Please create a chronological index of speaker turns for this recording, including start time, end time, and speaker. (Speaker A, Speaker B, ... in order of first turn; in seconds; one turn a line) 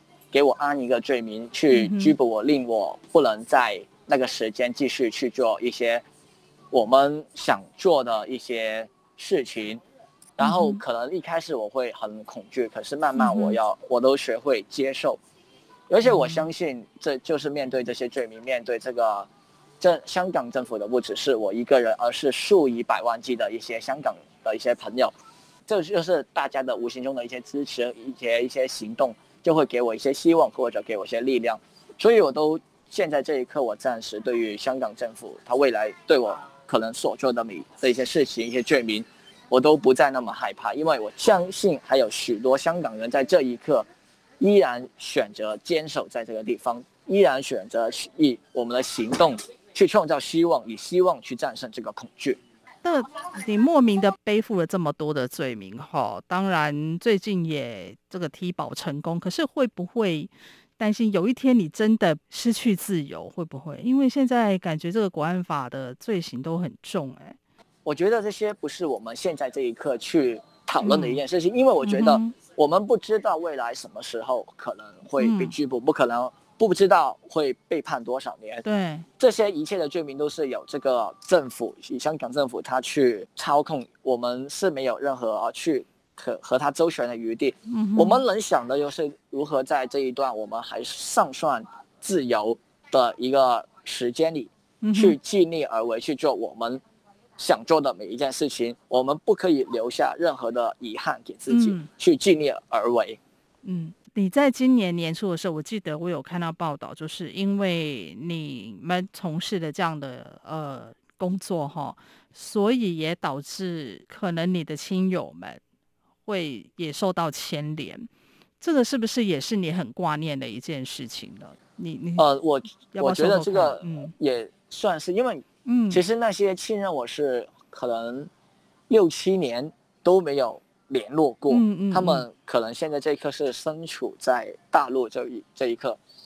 Speaker A: 0.3-6.0
Speaker B: 1.7-2.1
Speaker A: 6.7-9.8
Speaker A: 10.4-15.2
Speaker B: 10.4-10.8
Speaker B: 13.2-13.6
Speaker A: 15.9-19.3
Speaker B: 16.0-16.4
Speaker A: 19.8-25.1
Speaker A: 25.7-43.9
Speaker A: 44.4-52.4
Speaker B: 52.8-67.4
Speaker A: 67.8-78.6
Speaker B: 70.8-71.2
Speaker B: 71.8-72.3
Speaker B: 75.2-75.5
Speaker B: 78.6-79.0
Speaker A: 79.2-96.8
Speaker B: 87.7-88.2
Speaker B: 94.8-95.2
Speaker A: 97.4-103.2
Speaker B: 101.5-101.9
Speaker B: 103.6-115.6
Speaker B: 116.2-118.1
Speaker B: 118.6-122.2
Speaker A: 122.2-128.3
Speaker B: 122.9-124.1
Speaker B: 125.7-126.0
Speaker A: 128.9-136.0
Speaker B: 131.5-132.2